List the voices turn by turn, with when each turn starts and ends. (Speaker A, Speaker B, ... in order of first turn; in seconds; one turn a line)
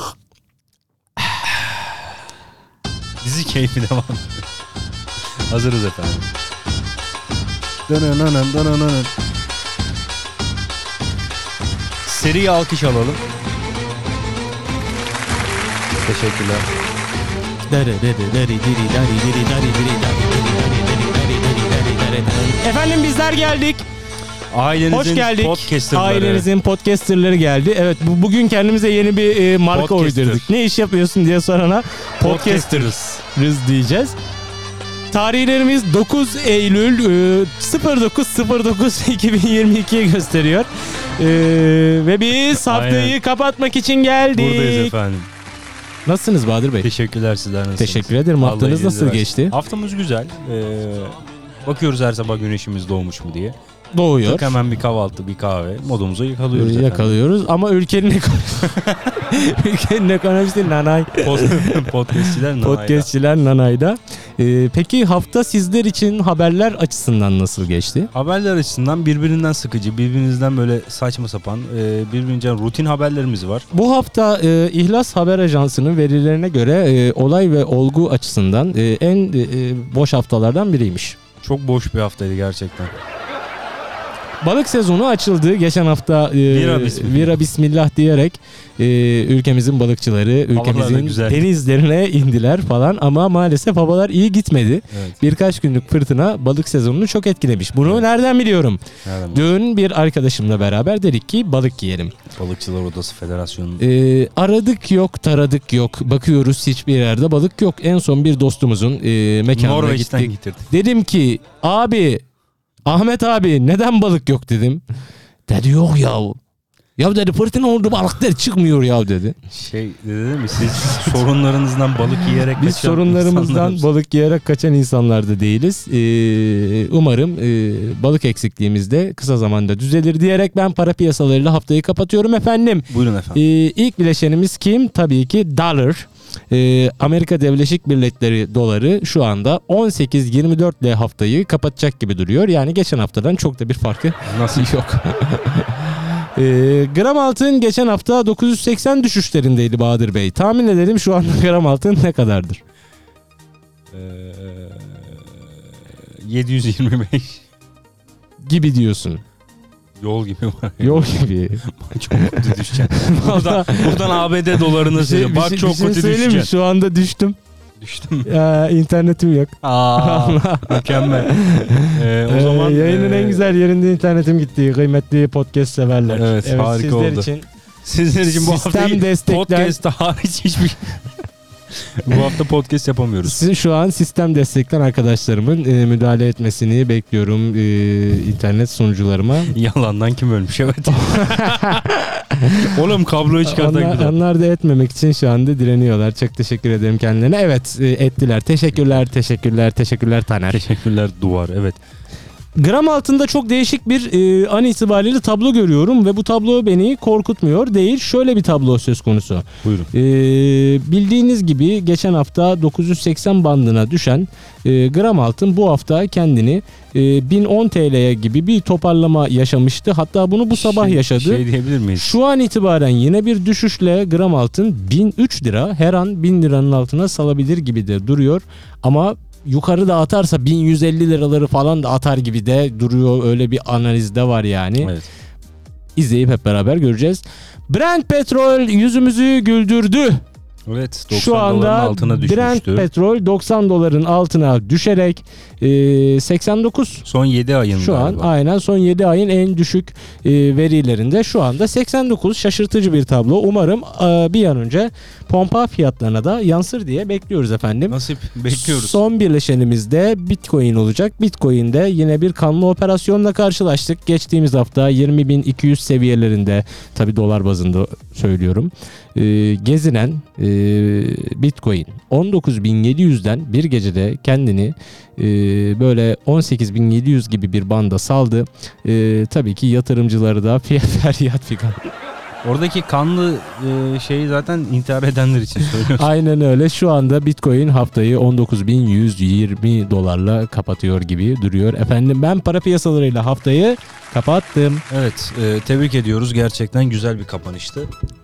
Speaker A: 1.3-1.9
Speaker A: 3.2-4.4
Speaker A: 5.5-6.3
Speaker A: 7.9-9.1
Speaker A: 12.0-13.2
Speaker A: 16.0-16.7
Speaker B: 17.7-23.9
Speaker A: 24.5-26.5
Speaker B: 24.9-34.1
Speaker A: 29.7-30.4
Speaker A: 32.2-33.1
Speaker B: 35.1-44.9
Speaker A: 42.5-43.1
Speaker A: 44.4-45.3
Speaker B: 46.0-46.9
Speaker A: 46.8-53.6
Speaker B: 47.8-49.5
Speaker B: 53.9-54.5
Speaker A: 54.2-57.2
Speaker B: 56.5-68.1
Speaker A: 58.7-59.1
Speaker A: 61.2-63.1
Speaker A: 68.1-73.7
Speaker B: 73.7-81.2
Speaker A: 81.4-82.9
Speaker B: 84.4-102.1
Speaker A: 86.5-87.4
Speaker A: 90.5-91.5
Speaker A: 94.9-95.2
Speaker A: 99.0-99.5
Speaker A: 102.3-103.8
Speaker B: 103.8-112.2
Speaker A: 109.5-110.7
Speaker B: 112.8-114.8
Speaker B: 115.5-116.4
Speaker B: 117.0-119.4
Speaker A: 119.5-123.8
Speaker B: 122.5-152.6
Speaker A: 132.9-133.4
Speaker A: 144.2-144.8
Speaker A: 153.9-157.4
Speaker B: 158.4-159.2
Speaker A: 160.0-166.5
Speaker B: 160.8-167.4
Speaker A: 167.8-168.3
Speaker B: 168.2-177.5
Speaker A: 169.6-173.5
Speaker A: 176.1-177.3
Speaker A: 177.8-181.1
Speaker B: 178.3-179.8
Speaker A: 181.7-183.4
Speaker B: 183.2-189.5
Speaker A: 189.5-191.8
Speaker B: 190.9-192.8
Speaker A: 192.6-194.2
Speaker B: 193.4-200.6
Speaker A: 200.5-201.8
Speaker B: 202.6-221.4
Speaker A: 209.6-209.9
Speaker A: 220.5-222.2
Speaker B: 222.0-234.9
Speaker A: 234.8-235.1
Speaker B: 235.9-240.2
Speaker A: 240.7-242.9
Speaker B: 241.1-247.1
Speaker A: 247.0-248.3
Speaker B: 247.8-258.0
Speaker A: 257.9-259.0
Speaker B: 258.5-281.9
Speaker A: 282.4-286.1
Speaker B: 285.9-294.8
Speaker A: 294.9-297.9